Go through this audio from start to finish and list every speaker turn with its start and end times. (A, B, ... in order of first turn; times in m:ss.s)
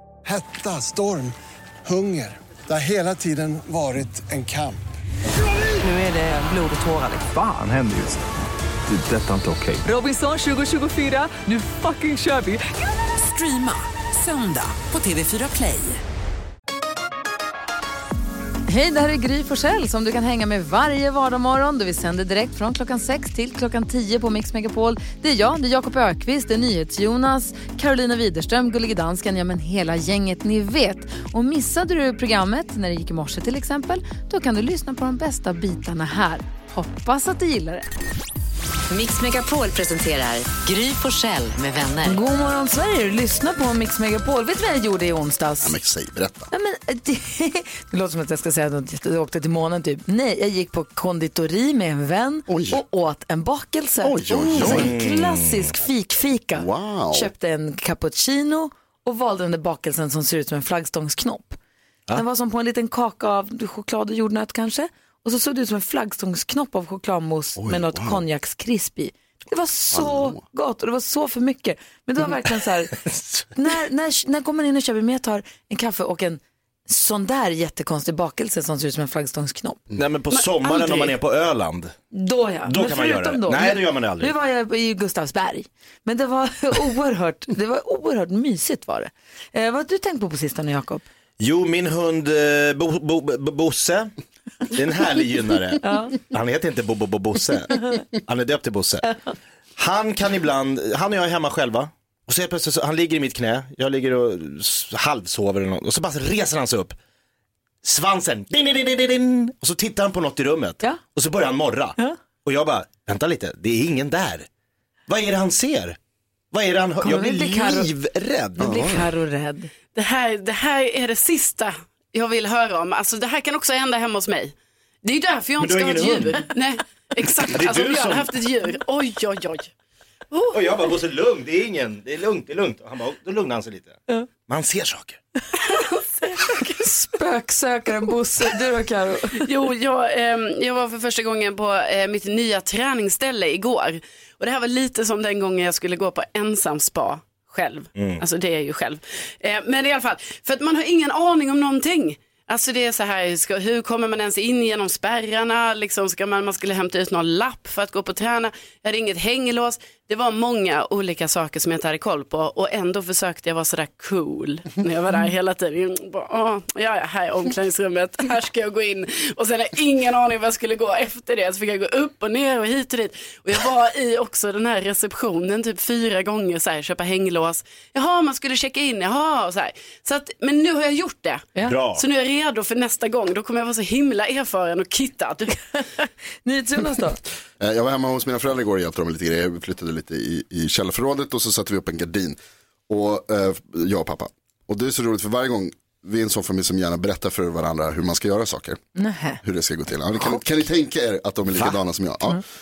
0:00.2-0:04.8 A
0:05.8-0:07.3 B
0:07.3-0:08.3 C
0:08.9-0:09.8 C
0:10.0-0:12.6 D
0:13.1-0:16.0 B
0:18.6-0:37.8 D
0:38.9-0:42.2 E
0:42.0-0:45.8 D
0:45.6-0:46.5 F
0:46.5-1:01.6 D
0:52.5-0:52.8 F
0:54.0-0:54.9 F
0:54.5-0:55.7 G
0:56.5-0:57.3 F
1:02.1-1:19.8 D
1:07.6-1:08.2 F
1:09.9-1:10.4 F
1:20.0-1:22.0 G
1:20.6-1:21.1 D
1:22.1-1:31.0 D
1:22.6-1:24.3 G
1:31.4-1:34.1 G
1:34.7-1:39.1 G
1:35.8-1:36.2 D
1:39.8-1:47.0 G
1:47.8-1:54.5 G
1:55.1-1:56.0 G
1:56.5-1:58.7 G
1:57.0-1:57.9 D
1:58.6-1:59.7 D
1:58.6-1:59.1 F
1:59.9-2:09.7 H
2:05.6-2:06.5 G
2:07.5-2:08.3 G
2:10.3-2:10.6 H
2:10.5-2:15.2 G
2:16.3-2:19.5 D
2:19.4-3:05.6 H
2:28.0-2:28.2 G
3:01.6-3:02.0 G
3:06.4-3:07.2 D
3:07.6-3:12.4 F
3:12.9-3:18.8 F
3:18.9-3:19.4 D
3:19.4-3:22.4 F
3:20.2-3:20.4 D